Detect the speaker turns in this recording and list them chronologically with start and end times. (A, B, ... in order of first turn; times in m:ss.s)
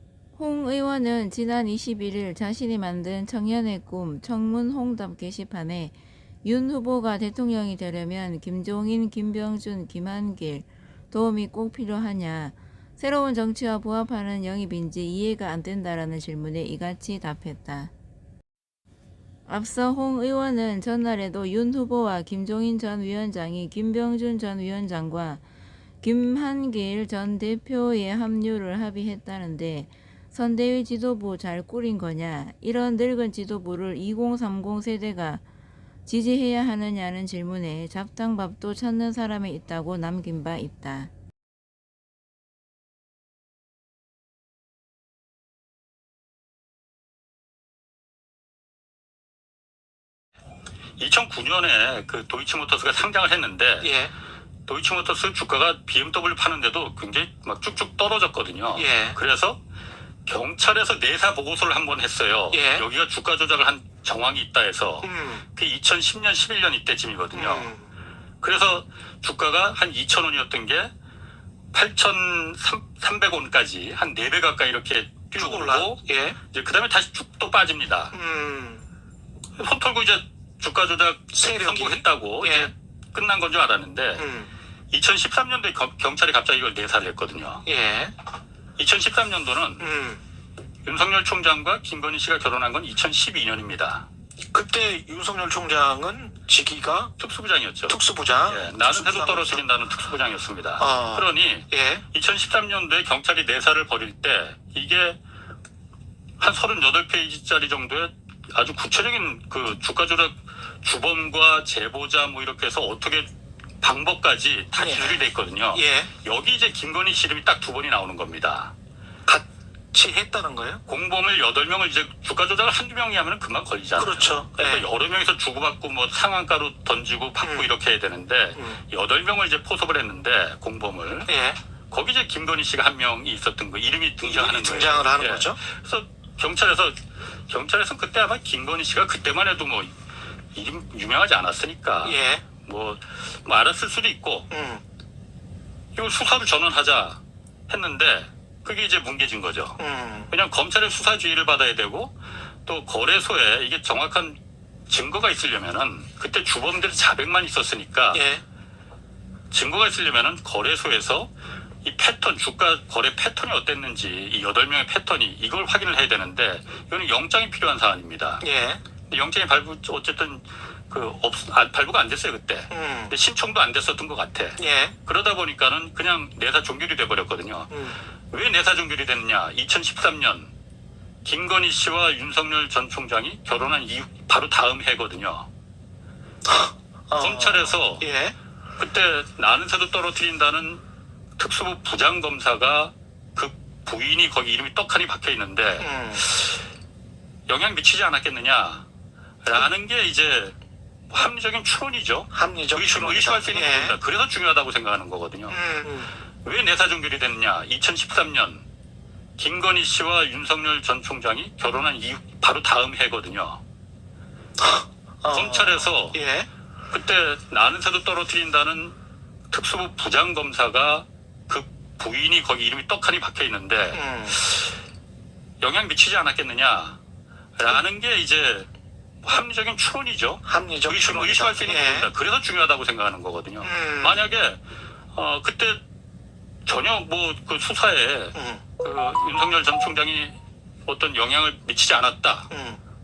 0:00.4-0:17.9 A
0:19.4-0:25.4 A
0:26.0-0:35.4 A
0:36.0-0:41.1 A
0:51.0-0:53.9 B
0:53.8-0:54.1 C
0:54.7-0:59.6 B
0:58.7-0:59.2 C
1:00.2-1:07.7 B
1:02.5-1:02.8 C
1:05.0-1:05.4 C
1:07.3-1:07.9 C
1:08.4-1:10.9 B
1:11.7-1:18.1 B
1:15.3-1:16.4 C
1:18.1-1:18.8 C
1:19.6-1:24.3 B
1:21.3-1:22.7 C
1:24.2-1:24.5 C
1:24.9-1:27.6 B
1:27.6-1:28.1 C
1:28.8-1:29.8 B
1:29.8-1:30.2 C
1:30.8-1:34.1 B
1:34.5-1:37.1 C
1:37.2-1:45.2 B
1:37.9-1:39.6 C
1:40.8-1:42.0 C
1:46.4-1:58.7 B
1:54.8-1:56.1 C
1:59.2-2:00.8 C
2:00.9-2:11.3 B
2:04.0-2:04.8 C
2:07.4-2:07.7 C
2:11.3-2:11.6 C
2:11.9-2:19.9 B
2:14.2-2:15.6 C
2:20.5-2:24.5 B
2:22.0-2:22.4 C
2:24.5-2:24.8 C
2:26.0-2:29.8 B
2:29.8-2:30.3 C
2:30.3-2:38.2 B
2:38.1-2:38.4 C
2:39.5-2:41.3 B
2:41.8-2:48.4 B
2:48.4-2:48.8 C
2:49.1-2:57.7 B
2:52.7-2:53.1 C
2:54.6-2:55.0 C
2:57.7-2:58.0 C
2:58.3-3:00.5 B
3:01.2-3:05.5 B
3:06.4-3:08.3 C
3:07.2-3:08.0 B
3:08.8-3:10.8 B
3:11.4-3:16.5 B
3:15.8-3:16.2 C
3:17.5-3:18.9 B
3:19.4-3:20.6 B
3:21.1-3:25.6 B
3:22.3-3:24.0 C
3:25.5-3:26.1 C
3:26.4-3:28.6 B
3:29.4-3:33.6 B
3:34.6-3:36.5 C
3:35.3-3:36.2 B
3:36.9-3:39.0 B
3:39.5-3:44.7 B
3:43.9-3:44.4 C
3:45.6-3:47.0 B
3:47.6-3:48.7 B
3:49.2-3:54.6 B
3:50.4-3:52.1 C
3:53.6-3:54.2 C
3:55.1-3:55.8 B
3:56.6-4:02.5 B
3:58.3-3:58.6 C
4:02.5-4:02.8 C